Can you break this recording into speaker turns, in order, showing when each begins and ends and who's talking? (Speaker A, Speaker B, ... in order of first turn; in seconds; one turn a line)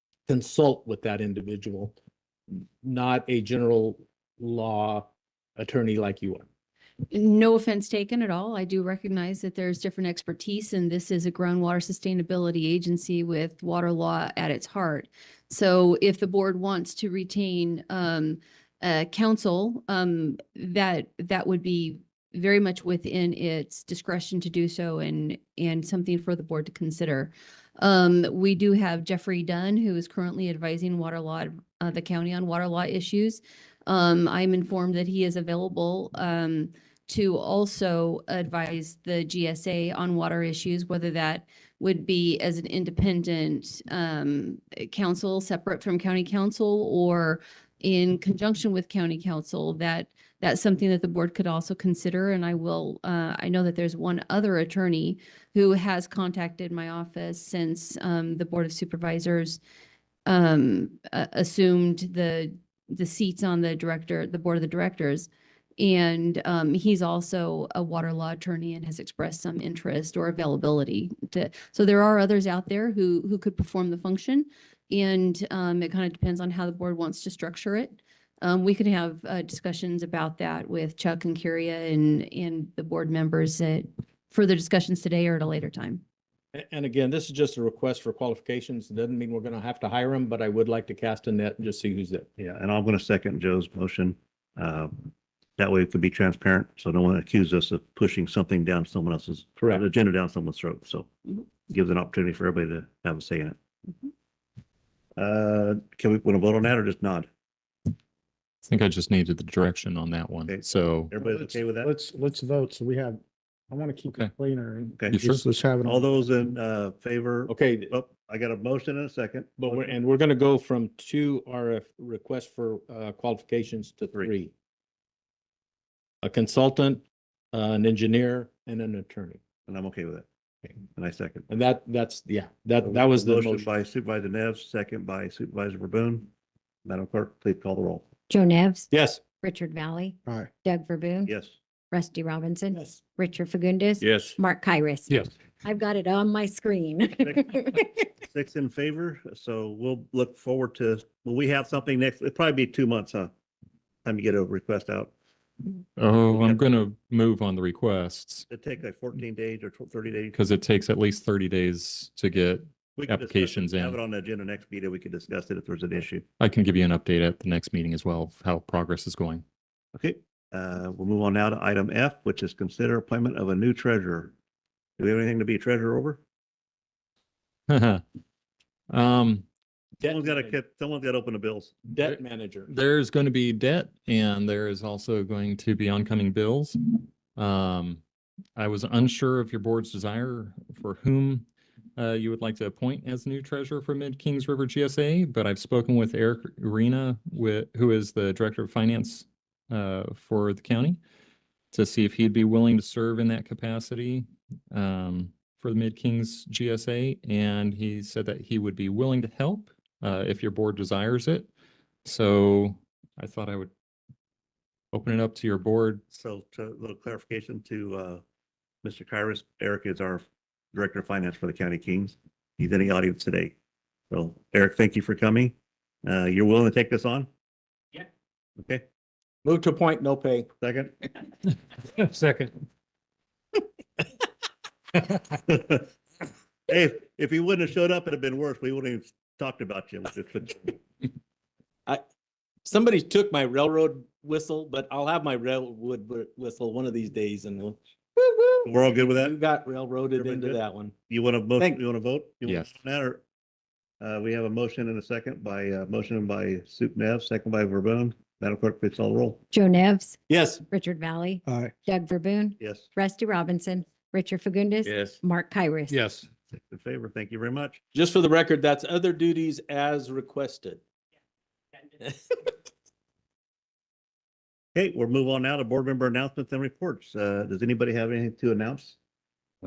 Speaker A: 0.3-1.9
Speaker A: 2.8-6.5
Speaker B: 7.1-59.6
Speaker B: 60.2-65.3
Speaker B: 65.8-86.0
Speaker A: 86.5-92.3
Speaker C: 92.4-103.6
Speaker A: 99.6-99.8
Speaker C: 105.2-107.3
Speaker D: 108.6-111.1
Speaker C: 110.5-111.9
Speaker E: 111.2-116.4
Speaker D: 115.1-115.4
Speaker C: 115.8-119.9
Speaker A: 117.5-117.9
Speaker A: 119.6-124.5
Speaker A: 126.2-129.4
Speaker C: 129.7-130.3
Speaker C: 130.9-131.5
Speaker A: 131.5-133.7
Speaker C: 132.8-136.3
Speaker C: 136.8-138.1
Speaker F: 138.3-141.3
Speaker A: 138.9-139.2
Speaker C: 141.2-141.6
Speaker F: 141.9-147.9
Speaker A: 144.1-144.3
Speaker C: 147.2-147.5
Speaker C: 148.2-153.3
Speaker C: 154.0-155.1
Speaker D: 156.0-158.4
Speaker C: 156.3-156.6
Speaker C: 158.5-160.4
Speaker D: 160.3-164.0
Speaker C: 163.0-166.2
Speaker D: 166.4-169.4
Speaker C: 169.9-174.3
Speaker C: 175.0-176.2
Speaker D: 177.7-178.0
Speaker D: 178.9-179.4
Speaker A: 180.0-180.6
Speaker C: 180.1-181.8
Speaker A: 181.9-182.7
Speaker D: 182.0-188.0
Speaker D: 188.6-191.4
Speaker D: 192.0-201.0
Speaker D: 201.7-211.5
Speaker D: 212.0-213.7
Speaker D: 214.9-216.0
Speaker C: 216.1-218.2
Speaker C: 218.8-223.5
Speaker C: 224.1-227.3
Speaker A: 229.4-230.5
Speaker C: 230.6-230.9
Speaker C: 235.4-235.9
Speaker C: 236.7-240.8
Speaker A: 242.6-250.9
Speaker C: 248.6-249.3
Speaker C: 250.2-253.2
Speaker C: 254.0-259.4
Speaker F: 259.5-266.0
Speaker A: 260.3-260.6
Speaker C: 262.6-262.9
Speaker A: 264.9-265.1
Speaker C: 266.7-267.8
Speaker A: 267.9-270.8
Speaker A: 272.0-272.4
Speaker C: 274.7-279.0